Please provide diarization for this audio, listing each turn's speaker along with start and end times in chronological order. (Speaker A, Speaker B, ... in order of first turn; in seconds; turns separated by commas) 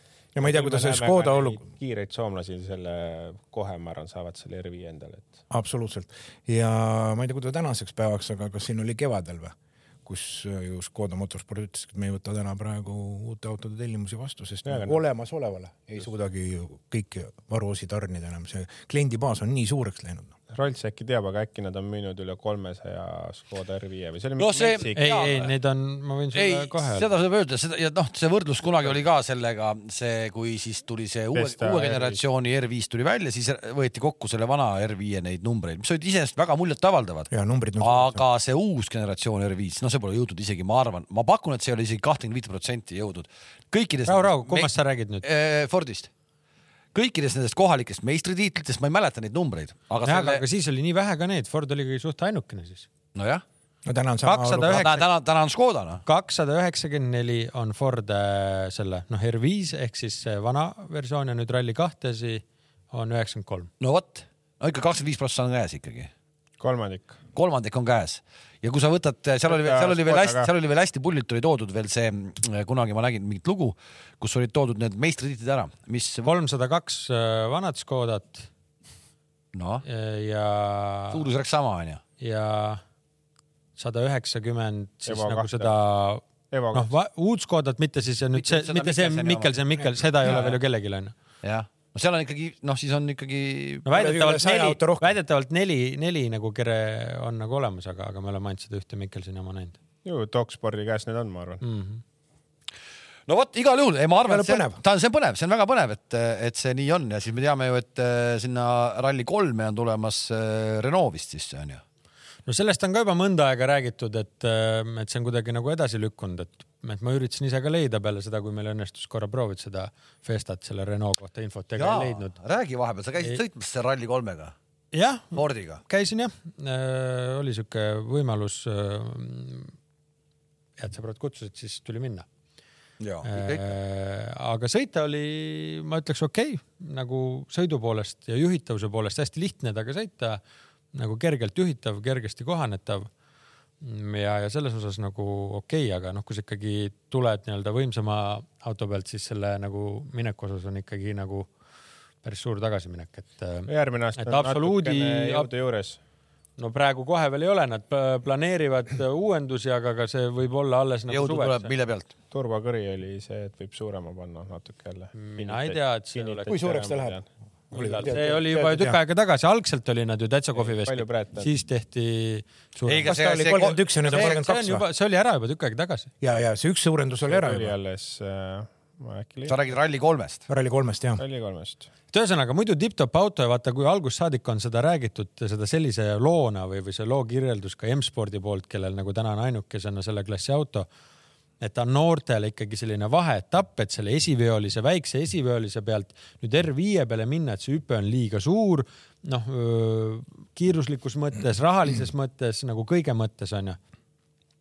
Speaker A: 0.3-1.6, Speaker B: 0.3-5.4, Speaker A: 5.5-20.3, Speaker B: 14.7-15.0, Speaker B: 20.5-25.4, Speaker C: 24.4-25.5, Speaker D: 24.9-27.1, Speaker C: 26.3-44.7, Speaker B: 31.4-32.2, Speaker A: 37.3-38.2, Speaker D: 44.1-45.2, Speaker C: 45.2-46.1, Speaker C: 46.9-50.4, Speaker D: 50.0-52.9, Speaker C: 53.1-53.4, Speaker A: 53.9-55.0, Speaker D: 54.2-55.0, Speaker C: 54.7-56.0, Speaker D: 56.0-63.7, Speaker C: 63.8-66.1, Speaker B: 66.6-67.2, Speaker C: 67.3-76.3, Speaker B: 69.5-70.5, Speaker D: 76.2-78.5, Speaker C: 79.5-79.8, Speaker D: 79.9-81.2, Speaker C: 81.1-82.0, Speaker D: 82.2-82.8, Speaker D: 83.8-86.2, Speaker B: 85.1-85.8, Speaker B: 86.5-86.9, Speaker D: 86.7-91.1, Speaker C: 88.3-89.5, Speaker C: 90.2-90.6, Speaker C: 91.4-93.9, Speaker D: 93.8-99.8, Speaker A: 93.9-95.2, Speaker B: 100.0-101.6, Speaker D: 101.6-102.0, Speaker C: 103.3-111.8, Speaker A: 104.3-104.8, Speaker D: 112.5-122.3, Speaker C: 121.8-124.5, Speaker D: 124.9-129.7, Speaker C: 125.3-125.8, Speaker D: 130.8-132.3, Speaker C: 133.0-133.7, Speaker D: 133.2-140.4, Speaker D: 140.9-143.1, Speaker D: 143.8-151.5, Speaker D: 152.2-155.5, Speaker B: 153.7-156.0, Speaker D: 156.6-161.7, Speaker C: 161.1-162.1, Speaker B: 162.3-167.3, Speaker D: 165.2-166.5, Speaker A: 166.5-167.2, Speaker A: 167.7-169.0, Speaker D: 167.7-173.2, Speaker B: 168.0-168.8, Speaker B: 170.6-171.5, Speaker C: 172.9-174.4, Speaker A: 173.1-174.9, Speaker D: 174.1-176.1, Speaker A: 176.2-177.7, Speaker B: 177.3-179.6, Speaker C: 179.5-180.4, Speaker A: 180.5-181.2, Speaker B: 181.2-181.9, Speaker D: 182.1-190.9, Speaker D: 191.6-203.8